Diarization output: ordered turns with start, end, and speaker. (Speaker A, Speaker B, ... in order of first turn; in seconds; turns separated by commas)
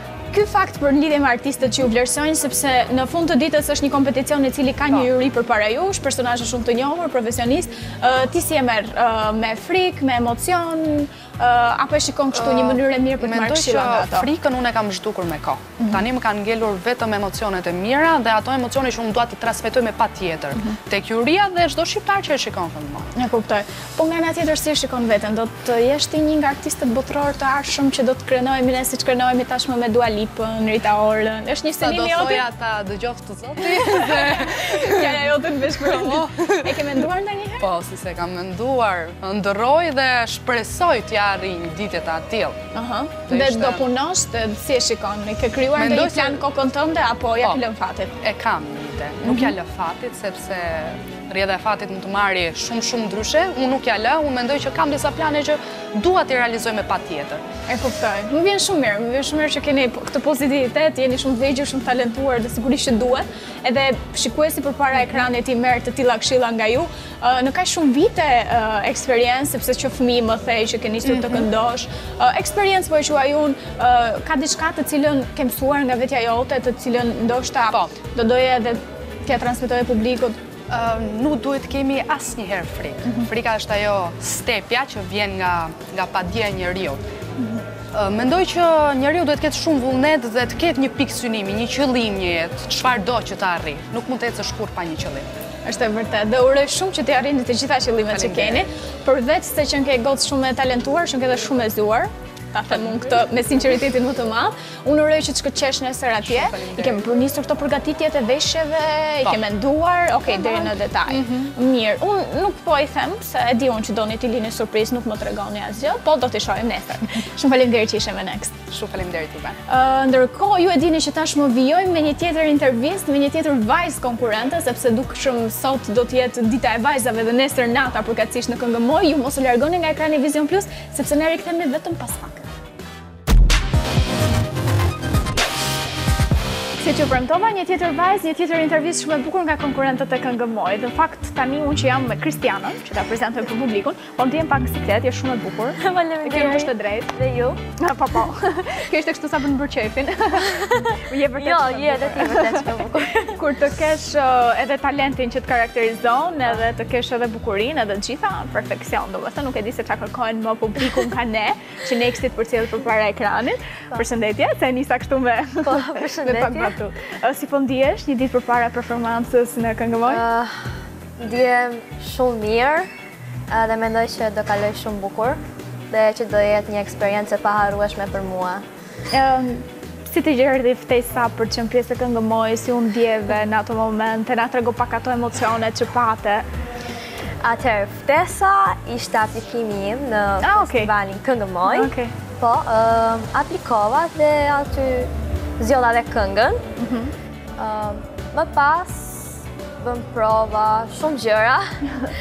Speaker A: 0.3-14.3, Speaker B: 12.3-23.1, Speaker A: 23.1-32.4, Speaker B: 31.8-36.9, Speaker A: 33.6-37.6, Speaker B: 37.6-42.6, Speaker A: 42.7-48.1, Speaker B: 43.3-43.9, Speaker B: 45.8-46.4, Speaker B: 48.2-57.4, Speaker A: 49.2-49.5, Speaker A: 57.7-80.4, Speaker B: 71.1-71.5, Speaker B: 80.7-87.0, Speaker B: 87.9-95.3, Speaker A: 95.6-118.6, Speaker B: 98.1-98.7, Speaker B: 106.2-107.0, Speaker B: 110.3-111.5, Speaker B: 118.7-119.6, Speaker A: 119.7-132.4, Speaker A: 136.8-147.1, Speaker C: 145.8-147.6, Speaker A: 147.8-170.2, Speaker C: 150.4-153.4, Speaker C: 165.6-166.8, Speaker C: 170.1-170.6, Speaker C: 171.2-172.9, Speaker C: 173.5-175.4, Speaker C: 175.9-178.7, Speaker A: 179.1-186.4, Speaker C: 187.4-196.6, Speaker A: 190.4-190.9, Speaker A: 191.7-192.1, Speaker A: 196.8-197.1, Speaker C: 197.6-201.8